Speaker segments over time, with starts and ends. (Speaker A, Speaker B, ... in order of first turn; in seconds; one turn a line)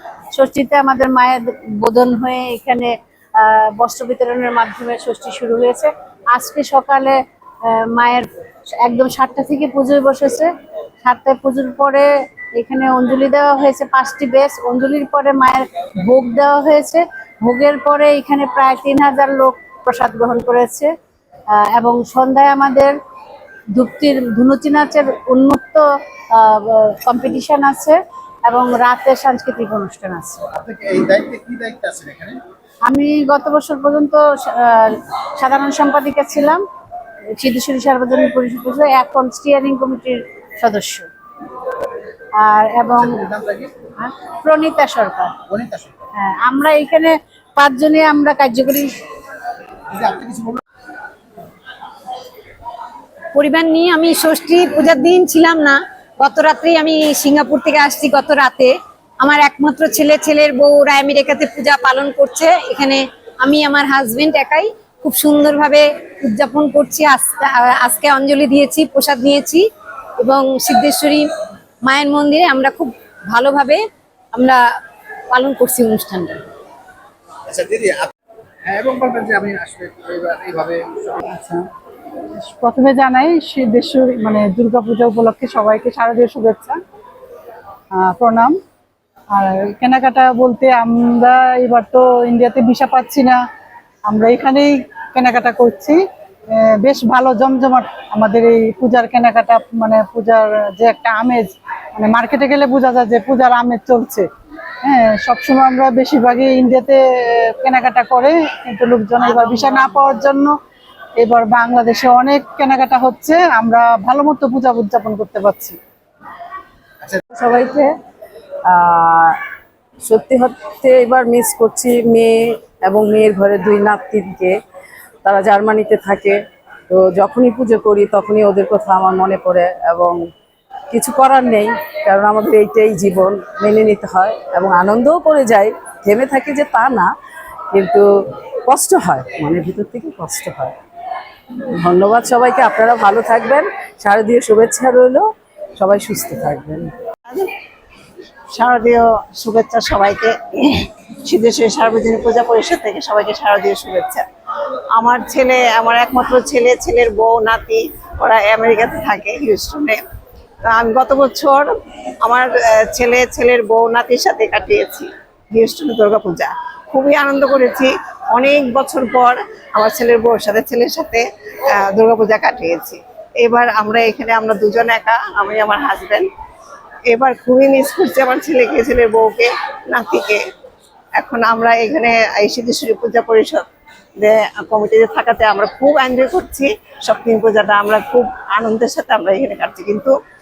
Speaker A: 0.3-20.9
Speaker A: 21.5-23.0
Speaker A: 23.7-30.4
Speaker B: 30.5-32.4
Speaker A: 32.9-36.6
Speaker A: 37.3-41.1
Speaker A: 42.4-43.2
Speaker B: 43.0-43.7
Speaker A: 44.0-45.4
Speaker B: 45.5-45.9
Speaker A: 46.2-49.0
Speaker B: 49.9-50.6
Speaker C: 53.3-69.7
Speaker C: 70.2-71.3
Speaker C: 71.9-73.8
Speaker C: 74.3-74.6
Speaker C: 75.3-76.5
Speaker B: 77.5-78.1
Speaker B: 78.7-81.2
Speaker D: 82.5-86.8
Speaker D: 88.0-88.6
Speaker D: 89.3-93.4
Speaker D: 94.1-96.0
Speaker D: 96.8-104.2
Speaker D: 104.9-107.0
Speaker D: 107.6-109.1
Speaker C: 109.5-110.1
Speaker D: 111.2-115.7
Speaker E: 117.3-117.9
Speaker E: 118.7-119.4
Speaker E: 120.0-124.5
Speaker E: 125.2-130.2
Speaker E: 130.9-137.1
Speaker E: 137.7-138.1
Speaker E: 138.7-140.8
Speaker E: 141.8-146.9
Speaker F: 148.5-154.3
Speaker F: 155.0-160.0
Speaker F: 160.7-161.7
Speaker F: 162.2-171.2
Speaker F: 171.8-176.3
Speaker F: 177.1-180.4
Speaker F: 181.2-183.7
Speaker F: 184.2-190.1